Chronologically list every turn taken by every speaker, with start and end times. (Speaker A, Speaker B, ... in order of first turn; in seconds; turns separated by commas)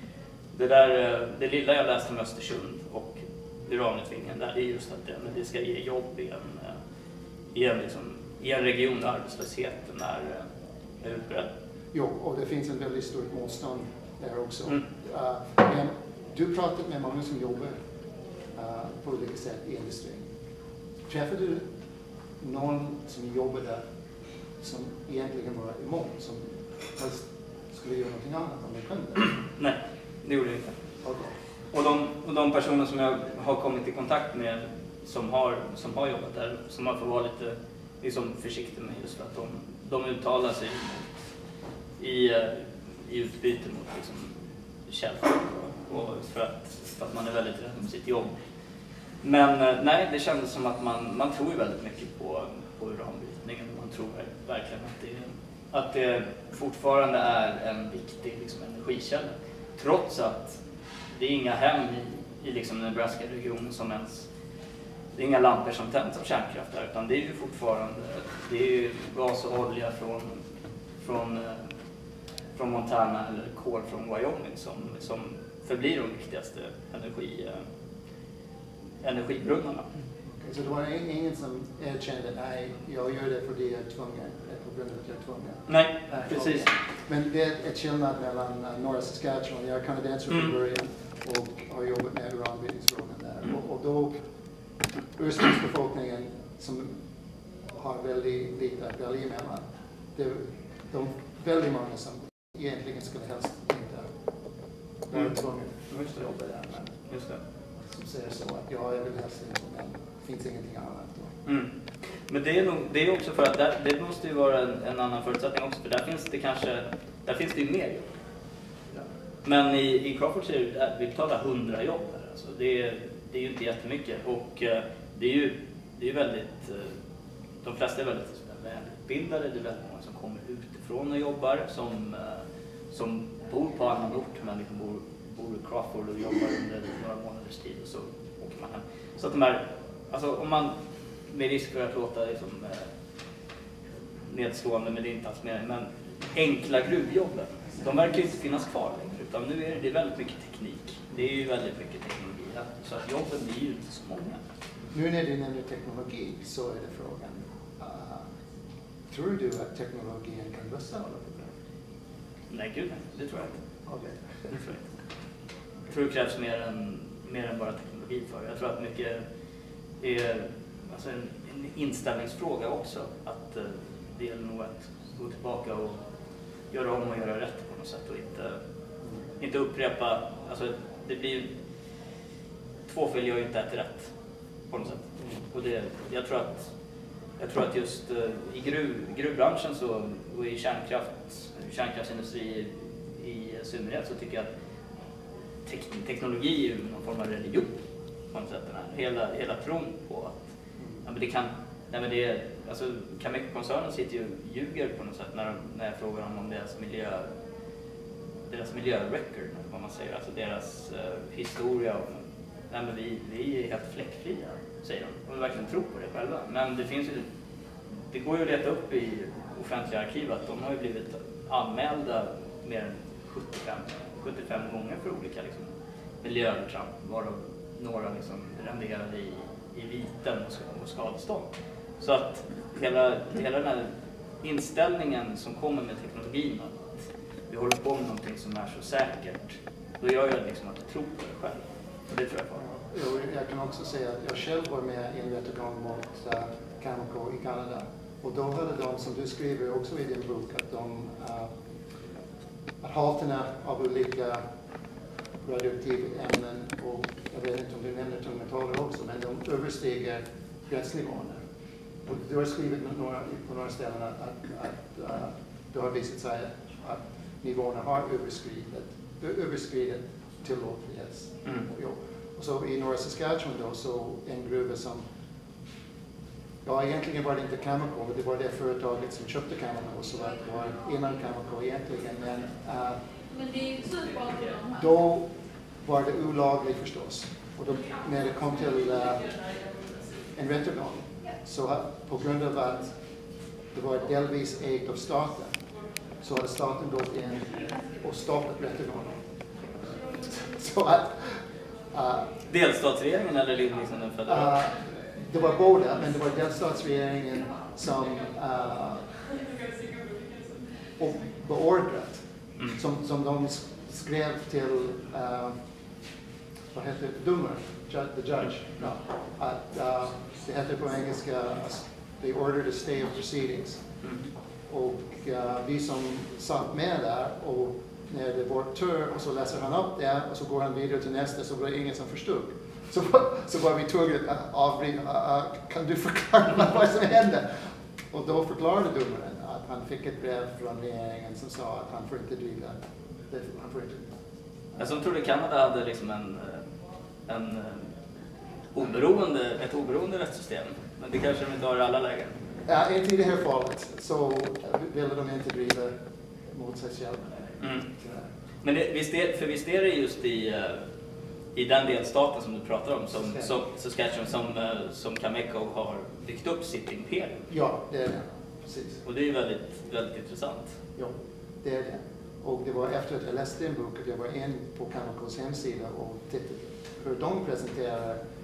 Speaker A: 0.5-6.8, Speaker A: 7.5-10.5, Speaker A: 11.0-11.5, Speaker B: 11.9-17.8, Speaker B: 18.6-20.3, Speaker B: 21.1-21.7, Speaker B: 22.4-23.9, Speaker B: 24.6-29.3, Speaker A: 29.6-30.8, Speaker B: 31.0-31.3, Speaker A: 31.7-41.2, Speaker A: 42.0-48.4, Speaker A: 49.2-60.6, Speaker A: 61.1-64.3, Speaker A: 65.2-70.4, Speaker A: 71.0-71.7, Speaker A: 72.6-77.6, Speaker A: 79.0-79.9, Speaker B: 80.4-94.2, Speaker A: 85.7-86.7, Speaker A: 90.3-90.5, Speaker B: 95.2-97.0, Speaker B: 97.7-104.1, Speaker B: 105.1-105.8, Speaker A: 105.9-107.4, Speaker B: 107.8-111.3, Speaker A: 111.5-111.7, Speaker A: 112.3-118.1, Speaker A: 119.4-126.9, Speaker A: 127.6-140.8, Speaker A: 141.3-142.9, Speaker A: 144.3-154.4, Speaker B: 154.9-158.3, Speaker B: 159.1-161.5, Speaker A: 162.5-163.6, Speaker B: 163.9-164.5, Speaker A: 164.5-164.8, Speaker A: 165.9-169.2, Speaker A: 170.0-176.0, Speaker A: 176.7-178.6, Speaker A: 179.4-181.5, Speaker A: 182.9-184.1, Speaker A: 184.7-186.7, Speaker A: 187.4-194.5, Speaker A: 195.7-197.8, Speaker A: 198.3-200.5, Speaker A: 201.0-207.3, Speaker A: 208.5-217.3, Speaker A: 218.1-225.7, Speaker A: 226.2-233.9, Speaker A: 234.4-236.8, Speaker A: 237.5-242.6, Speaker B: 242.6-251.5, Speaker B: 252.8-254.4, Speaker B: 255.4-261.4, Speaker B: 262.0-275.1, Speaker B: 276.6-283.0, Speaker B: 283.8-289.6, Speaker B: 290.3-293.0, Speaker B: 293.7-295.6, Speaker B: 296.2-299.2, Speaker B: 299.8-302.3, Speaker A: 302.5-304.6, Speaker B: 304.2-309.2, Speaker B: 311.0-315.6, Speaker B: 316.7-323.8, Speaker A: 324.0-324.3, Speaker B: 324.7-344.1, Speaker A: 344.8-346.6, Speaker A: 347.3-347.9, Speaker A: 348.7-352.4, Speaker B: 352.7-356.0, Speaker B: 356.5-358.3, Speaker A: 357.6-357.9, Speaker A: 358.6-360.8, Speaker A: 361.6-367.4, Speaker B: 363.1-363.5, Speaker B: 367.5-369.0, Speaker A: 369.1-370.7, Speaker B: 371.0-378.2